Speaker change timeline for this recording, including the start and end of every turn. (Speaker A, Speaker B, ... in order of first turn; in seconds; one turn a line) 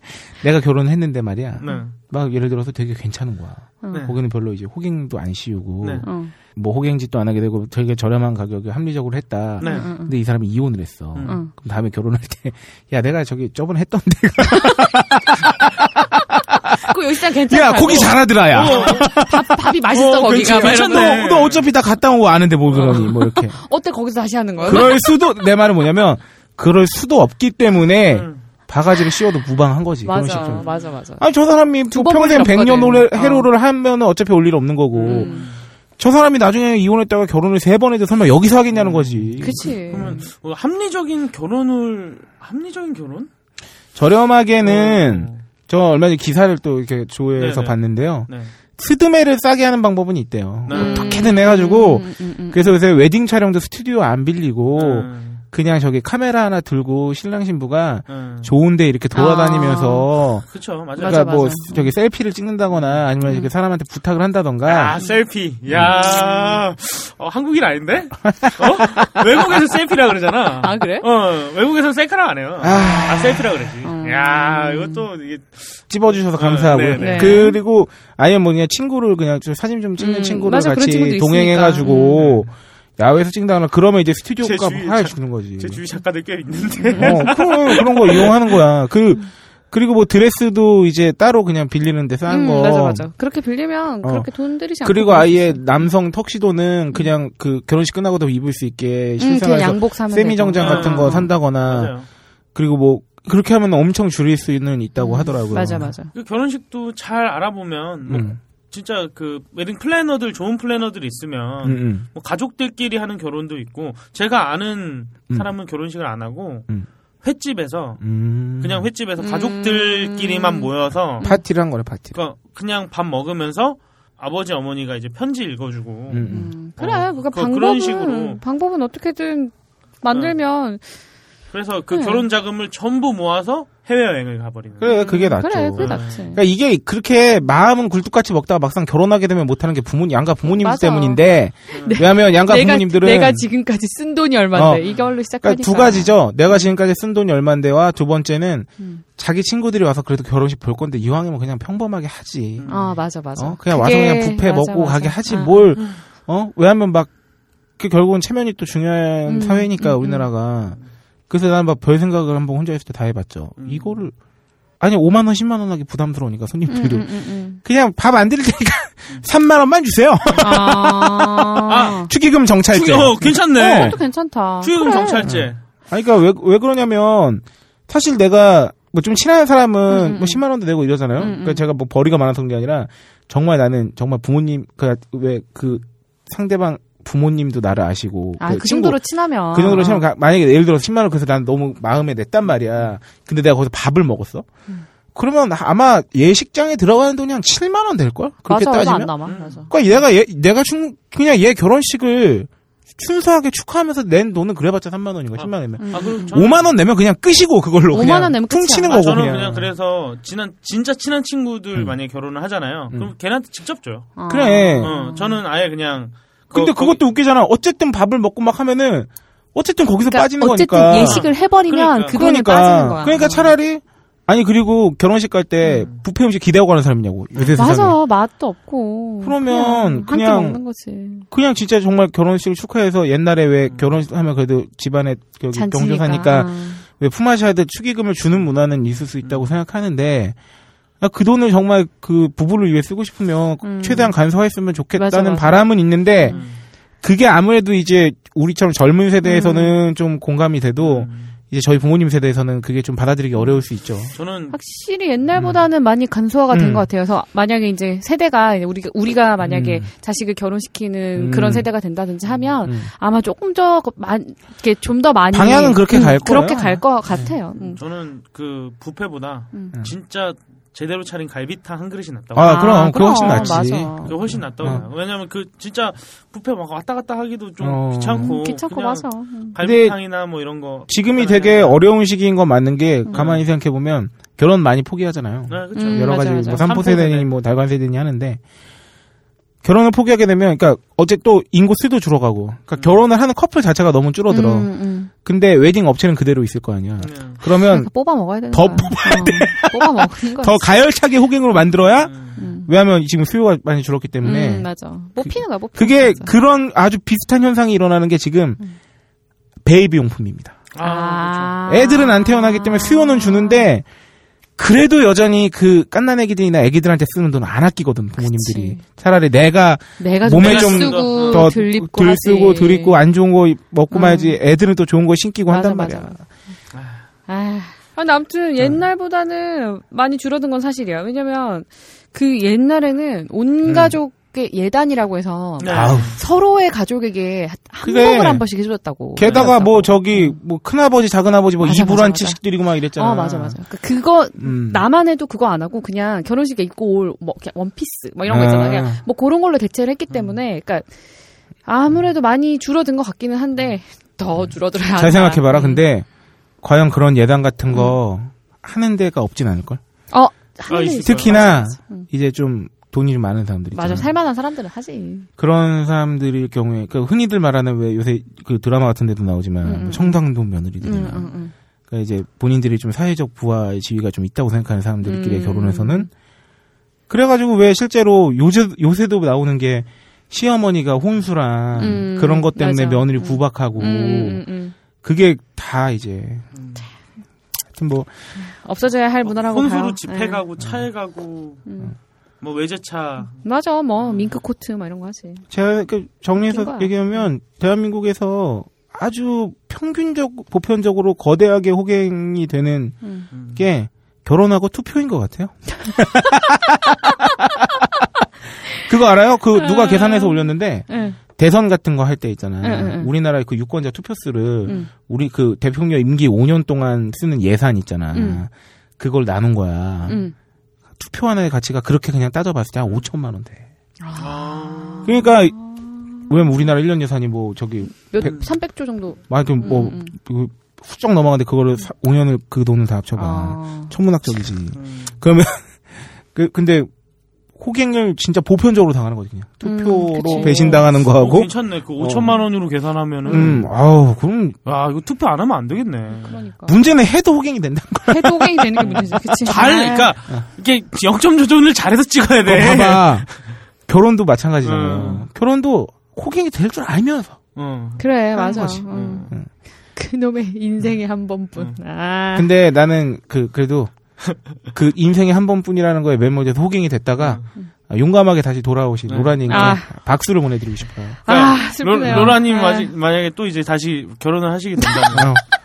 Speaker A: 0.4-16.9
Speaker B: 1.6-1.9
Speaker C: 3.8-4.1
Speaker B: 5.8-6.1
Speaker C: 6.0-6.3
Speaker B: 9.6-9.9
Speaker C: 9.6-10.1
Speaker B: 11.1-11.4
Speaker C: 11.2-11.5
Speaker C: 14.5-14.8
Speaker C: 16.8-21.2
Speaker A: 17.5-19.5
Speaker B: 17.9-19.2
Speaker B: 19.9-21.7
Speaker A: 20.2-23.6
Speaker C: 22.7-25.0
Speaker A: 24.6-35.3
Speaker B: 24.6-24.9
Speaker B: 28.1-28.4
Speaker C: 30.0-31.2
Speaker B: 30.4-30.9
Speaker C: 31.9-33.5
Speaker B: 34.9-35.6
Speaker C: 35.1-35.5
Speaker A: 36.0-39.7
Speaker B: 38.7-43.3
Speaker C: 39.4-40.2
Speaker A: 43.9-60.4
Speaker B: 44.6-45.4
Speaker B: 47.4-47.8
Speaker B: 48.3-48.5
Speaker B: 50.7-51.3
Speaker C: 50.7-52.7
Speaker B: 54.7-55.4
Speaker B: 58.1-58.5
Speaker C: 59.1-60.1
Speaker B: 60.5-61.3
Speaker A: 61.0-65.0
Speaker C: 61.0-61.9
Speaker B: 62.8-63.0
Speaker C: 63.2-63.5
Speaker B: 64.6-77.5
Speaker A: 65.7-66.0
Speaker A: 68.3-69.2
Speaker C: 70.6-71.1
Speaker A: 72.6-73.5
Speaker C: 73.8-75.1
Speaker A: 75.9-85.8
Speaker C: 77.0-77.6
Speaker C: 80.0-82.3
Speaker B: 81.8-82.5
Speaker B: 84.4-88.5
Speaker C: 86.8-87.3
Speaker A: 87.0-93.1
Speaker C: 92.3-95.8
Speaker A: 94.0-94.3
Speaker A: 94.8-101.9
Speaker C: 99.2-101.3
Speaker B: 100.6-102.0
Speaker A: 102.5-105.9
Speaker C: 105.0-106.1
Speaker B: 106.1-116.7
Speaker A: 108.1-108.4
Speaker A: 111.6-112.0
Speaker B: 117.2-118.0
Speaker A: 118.0-118.9
Speaker B: 118.6-121.3
Speaker C: 119.2-120.7
Speaker A: 121.2-122.2
Speaker B: 122.1-128.4
Speaker A: 126.1-126.5
Speaker C: 126.3-130.8
Speaker B: 131.5-134.9
Speaker C: 131.9-132.2
Speaker A: 134.8-143.4
Speaker C: 134.8-136.4
Speaker B: 135.8-136.2
Speaker C: 140.5-146.7
Speaker B: 141.7-142.0
Speaker A: 144.5-144.8
Speaker A: 145.4-152.7
Speaker B: 152.6-153.0
Speaker C: 152.7-155.7
Speaker A: 153.3-157.1
Speaker A: 157.8-160.8
Speaker C: 159.2-160.3
Speaker A: 161.3-164.1
Speaker B: 163.6-163.9
Speaker A: 164.8-173.9
Speaker C: 166.7-167.6
Speaker C: 170.4-172.1
Speaker B: 171.6-172.1
Speaker B: 172.7-174.0
Speaker C: 173.6-175.3
Speaker B: 174.6-175.6
Speaker A: 175.2-189.0
Speaker C: 179.9-180.4
Speaker C: 181.2-181.6
Speaker C: 188.4-190.1
Speaker A: 189.5-194.4
Speaker A: 195.1-199.1
Speaker C: 198.5-199.7
Speaker B: 199.2-199.7
Speaker A: 199.7-209.7
Speaker B: 205.3-206.7
Speaker C: 205.8-206.3
Speaker C: 207.9-209.3
Speaker B: 208.8-214.2
Speaker C: 214.2-215.4
Speaker A: 214.3-214.9
Speaker B: 214.8-217.0
Speaker A: 216.5-221.2
Speaker C: 220.1-223.5
Speaker B: 220.9-222.2
Speaker A: 222.1-228.0
Speaker C: 227.6-231.2
Speaker A: 229.2-230.6
Speaker A: 231.3-240.3
Speaker C: 235.5-236.8
Speaker B: 239.2-239.5
Speaker A: 241.0-246.4
Speaker C: 243.6-244.2
Speaker C: 244.9-246.4
Speaker B: 246.3-246.6
Speaker A: 247.0-254.1
Speaker C: 249.2-249.8
Speaker B: 250.8-251.3
Speaker B: 254.1-254.6
Speaker C: 254.5-267.8
Speaker A: 256.5-256.9
Speaker A: 259.4-259.9
Speaker A: 261.1-261.7
Speaker A: 265.3-267.3
Speaker B: 267.6-281.8
Speaker A: 272.3-274.8
Speaker C: 272.4-274.8
Speaker A: 277.6-278.3
Speaker C: 278.2-279.6
Speaker A: 279.6-280.0
Speaker A: 280.9-288.4
Speaker B: 283.1-283.4
Speaker B: 285.5-287.3
Speaker C: 285.7-286.7
Speaker A: 289.6-297.9
Speaker C: 294.3-295.1
Speaker B: 297.0-297.4
Speaker C: 297.5-300.7
Speaker A: 298.5-304.7
Speaker B: 302.0-302.4
Speaker C: 302.4-302.7
Speaker C: 304.2-306.3
Speaker A: 305.2-308.6
Speaker A: 309.6-310.6
Speaker B: 310.7-311.6
Speaker C: 310.8-313.7
Speaker A: 311.7-313.8
Speaker A: 314.6-326.2
Speaker C: 318.2-318.8
Speaker C: 320.0-323.0
Speaker B: 320.4-321.5
Speaker C: 323.9-324.4
Speaker C: 325.5-326.3
Speaker B: 326.7-327.0
Speaker C: 327.3-340.4
Speaker A: 333.6-333.9
Speaker B: 335.6-336.1
Speaker A: 335.7-336.2
Speaker A: 337.8-338.4
Speaker A: 339.1-343.6
Speaker B: 339.2-339.5
Speaker C: 341.6-350.9
Speaker A: 344.4-344.8
Speaker A: 348.3-349.0
Speaker C: 351.6-355.8
Speaker A: 354.4-356.1
Speaker A: 356.6-359.8
Speaker C: 357.7-358.0
Speaker C: 360.1-362.1
Speaker B: 360.7-361.4
Speaker A: 361.0-364.1
Speaker C: 363.7-365.3
Speaker A: 365.4-371.3
Speaker C: 369.6-370.2
Speaker C: 370.8-371.5
Speaker A: 371.9-376.1
Speaker C: 375.0-376.1
Speaker A: 377.1-384.4
Speaker C: 381.8-384.7
Speaker A: 385.0-386.4
Speaker B: 386.5-386.8
Speaker A: 387.7-388.1
Speaker C: 388.4-390.4
Speaker B: 389.2-391.7
Speaker C: 391.7-391.9
Speaker B: 392.4-393.4
Speaker C: 393.4-395.5
Speaker B: 394.0-394.4
Speaker A: 395.5-407.7
Speaker C: 396.4-397.2
Speaker C: 403.0-403.3
Speaker B: 403.3-403.6
Speaker A: 408.7-420.2
Speaker C: 409.6-411.2
Speaker C: 412.6-413.1
Speaker C: 418.1-418.4
Speaker C: 420.1-420.3
Speaker A: 421.0-423.6
Speaker C: 424.0-426.6
Speaker B: 424.2-425.1
Speaker A: 425.0-425.6
Speaker A: 426.2-428.4
Speaker C: 427.9-430.1
Speaker A: 429.3-435.7
Speaker C: 433.1-433.9
Speaker B: 434.7-435.1
Speaker A: 436.3-436.9
Speaker A: 437.6-442.3
Speaker C: 439.6-440.9
Speaker B: 440.3-443.7
Speaker C: 443.2-443.6
Speaker A: 443.3-444.6
Speaker B: 444.6-446.4
Speaker C: 446.1-446.8
Speaker A: 446.6-449.4
Speaker C: 448.1-450.1
Speaker B: 448.8-453.4
Speaker A: 452.4-453.3
Speaker A: 453.9-457.4
Speaker B: 454.6-455.2
Speaker B: 457.6-458.1
Speaker C: 458.0-459.3
Speaker A: 458.3-459.5
Speaker B: 458.9-459.3
Speaker C: 459.9-462.5
Speaker A: 462.3-463.9
Speaker A: 464.7-471.2
Speaker B: 467.2-467.4
Speaker B: 469.1-469.8
Speaker C: 469.5-469.9
Speaker C: 471.2-472.9
Speaker B: 471.3-475.4
Speaker A: 475.1-475.4